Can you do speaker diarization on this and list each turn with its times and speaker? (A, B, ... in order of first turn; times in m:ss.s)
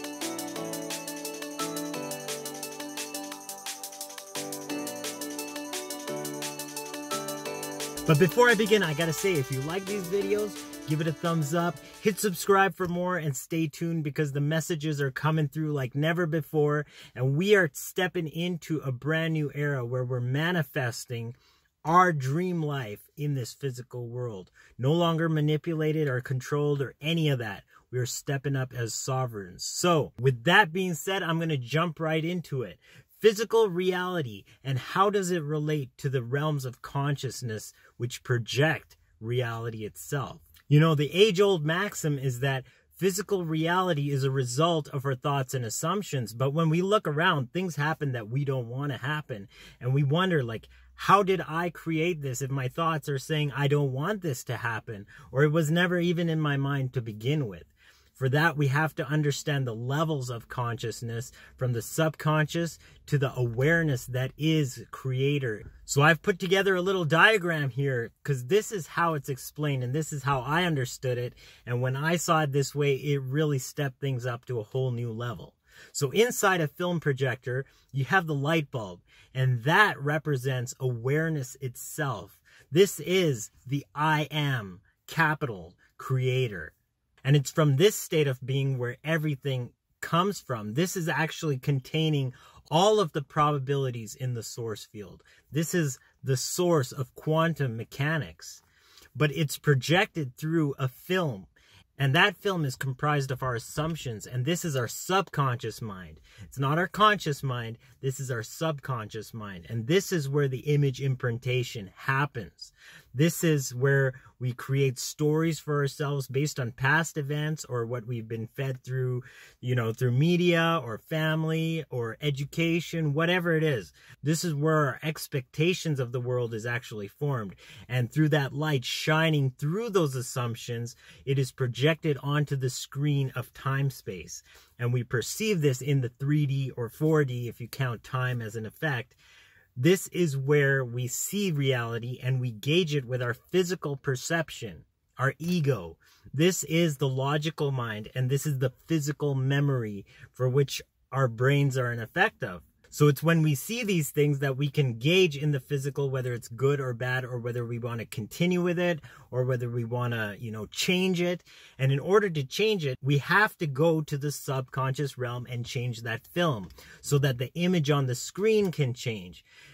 0:08.0-1:26.7 A
1:27.2-1:38.6 A
1:39.1-2:19.2 A
2:19.8-2:49.4 A